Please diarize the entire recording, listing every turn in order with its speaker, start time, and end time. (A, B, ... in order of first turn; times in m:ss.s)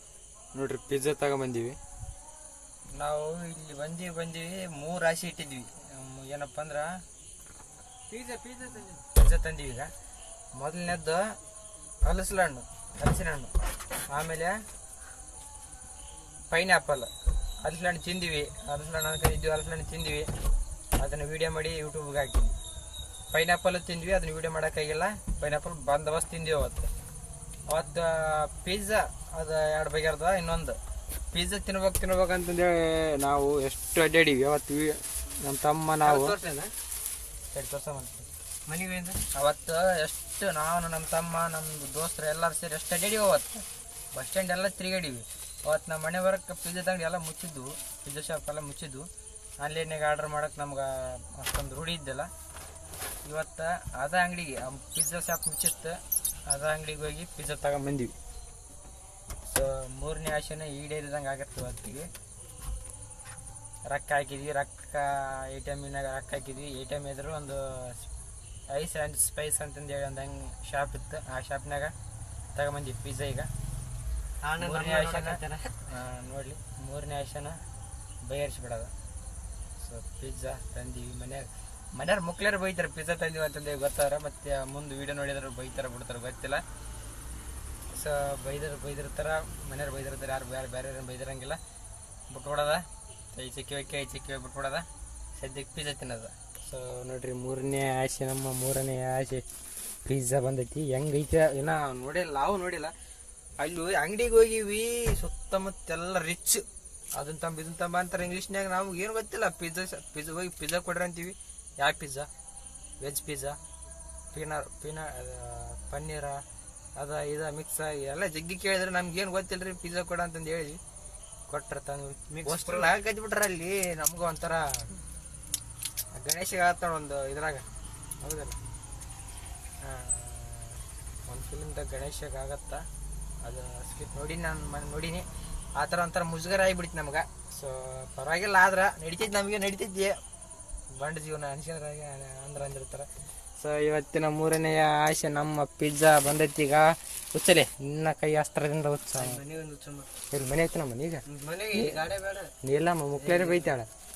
0:00.5-0:01.8 A
0:02.9-0:07.0 A
0:08.1-0:09.0 B
0:09.0-0:09.9 A
0:10.5-0:11.2 A
0:12.0-0:13.5 A
0:14.1-0:14.6 A
0:16.5-0:17.1 A
0:17.6-0:20.3 A
0:21.0-0:22.6 A
0:23.3-0:26.9 A
0:27.7-0:30.8 A
0:31.3-0:36.3 A
0:36.0-0:36.7 B
0:37.5-0:38.2 A
0:38.6-0:39.2 B
0:39.3-0:49.1 A
0:49.6-0:52.3 A
0:53.2-0:58.1 A
0:59.4-1:02.1 A
1:03.9-1:08.1 A
1:08.7-1:11.9 A
1:12.5-1:13.5 A
1:14.4-1:15.8 B
1:14.6-1:17.6 A
1:18.2-1:18.9 A
1:19.8-1:26.6 A
1:27.9-1:31.6 A
1:32.3-1:39.4 A
1:40.0-1:42.9 A
1:43.6-1:52.3 A
1:53.0-1:53.6 A
1:54.3-1:56.4 A
1:57.0-2:00.8 A
2:01.5-2:04.9 A
2:02.3-2:02.9 B
2:06.1-2:07.6 A
2:08.2-2:08.6 A
2:09.8-2:12.8 A
2:13.4-2:20.2 A
2:20.9-2:29.4 A
2:29.2-2:30.1 B
2:30.3-2:32.0 A
2:31.2-2:32.5 B
2:32.6-2:33.9 A
2:33.1-2:33.8 B